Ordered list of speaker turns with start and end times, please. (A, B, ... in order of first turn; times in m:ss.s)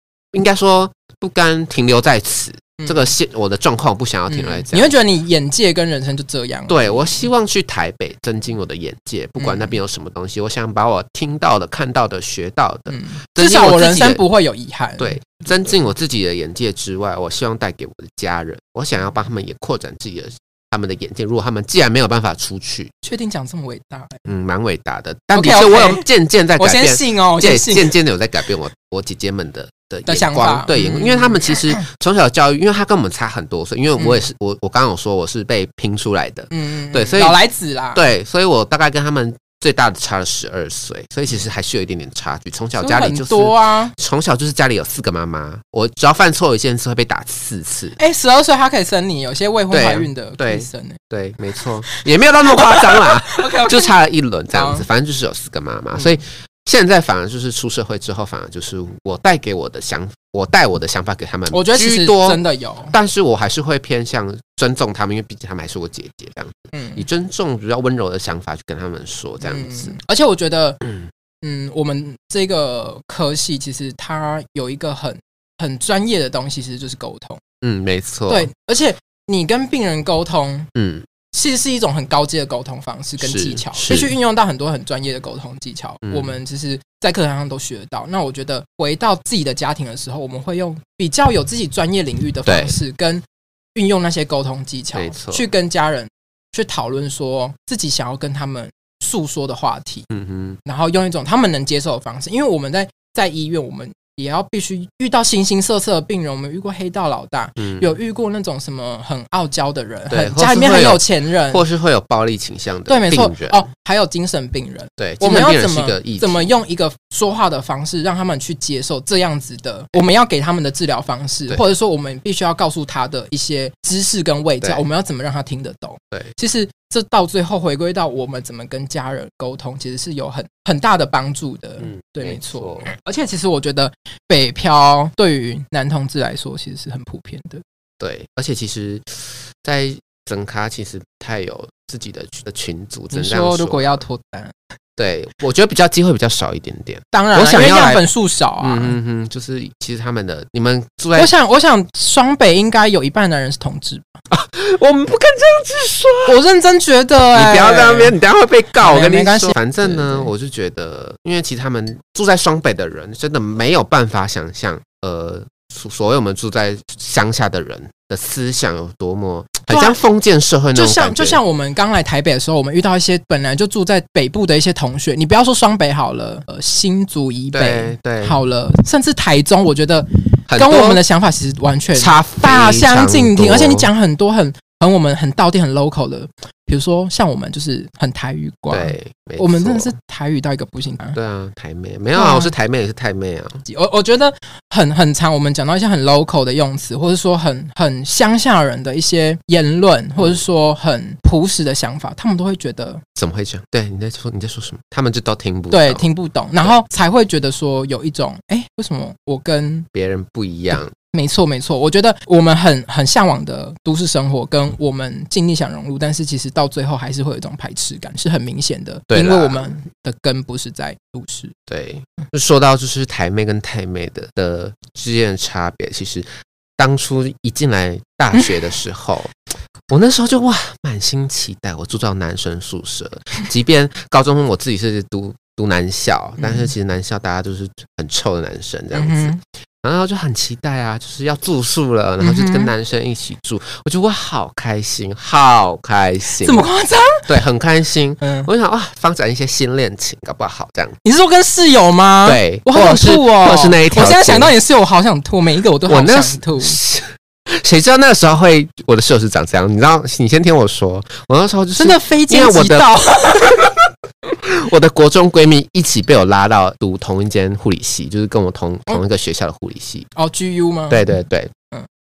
0:00.3-0:04.9 A
0:02.8-0:03.1 B
0:04.3-0:07.1 B
0:06.7-0:14.2 A
0:09.4-0:09.7 B
0:12.9-0:15.5 B
0:15.0-0:22.9 A
0:23.0-0:24.2 B
0:24.2-0:37.4 A
0:25.3-0:26.0 B
0:26.6-0:27.9 B
0:30.0-0:31.8 B
0:36.5-0:38.0 B
0:37.9-0:48.0 A
0:42.8-0:43.9 B
0:48.0-0:51.0 B
0:49.7-1:09.9 A
0:51.8-0:53.9 B
0:54.5-0:54.8 B
1:01.5-1:02.9 B
1:06.7-1:07.0 B
1:09.4-1:10.8 B
1:10.8-1:11.1 A
1:11.4-1:17.4 B
1:17.6-1:18.5 A
1:18.3-1:20.7 B
1:20.7-1:21.0 A
1:21.3-1:33.2 B
1:23.2-1:24.1 A
1:26.0-1:26.4 A
1:32.4-1:32.8 A
1:33.7-1:40.1 B
1:34.9-1:35.5 A
1:40.1-1:40.6 A
1:40.6-1:51.6 B
1:47.6-1:47.9 A
1:50.1-1:53.6 A
1:52.9-2:17.6 B
1:55.0-1:56.5 A
2:11.8-2:12.9 A
2:18.0-2:24.0 A
2:23.1-2:24.5 B
2:25.0-2:28.0 A
2:27.1-2:28.9 B
2:28.6-2:31.3 A
2:31.2-2:34.2 B
2:34.3-2:36.4 A
2:36.2-2:38.2 B
2:37.3-2:51.4 A
2:38.8-2:40.3 B
2:49.7-2:50.0 B
2:50.7-3:11.2 B
2:57.5-2:58.4 A
3:00.5-3:01.0 A
3:01.9-3:03.9 A
3:08.7-3:09.9 A
3:11.1-3:13.6 A
3:12.1-3:12.5 B
3:13.6-3:23.0 B
3:23.2-3:26.0 A
3:25.7-3:29.9 B
3:29.9-3:30.9 A
3:31.1-3:41.5 B
3:39.1-3:39.7 A
3:41.7-3:46.3 A
3:46.8-3:49.3 A
3:49.9-4:06.6 A
3:56.4-3:56.7 B
3:58.9-3:59.4 B
4:02.2-4:02.7 B
4:06.4-4:07.2 B
4:07.3-4:11.0 A
4:08.2-4:08.5 B
4:11.0-4:16.8 B
4:12.2-4:14.5 A
4:15.9-4:23.7 A
4:21.8-4:23.7 B
4:24.2-4:30.1 A
4:30.2-4:31.0 B
4:30.9-4:31.5 A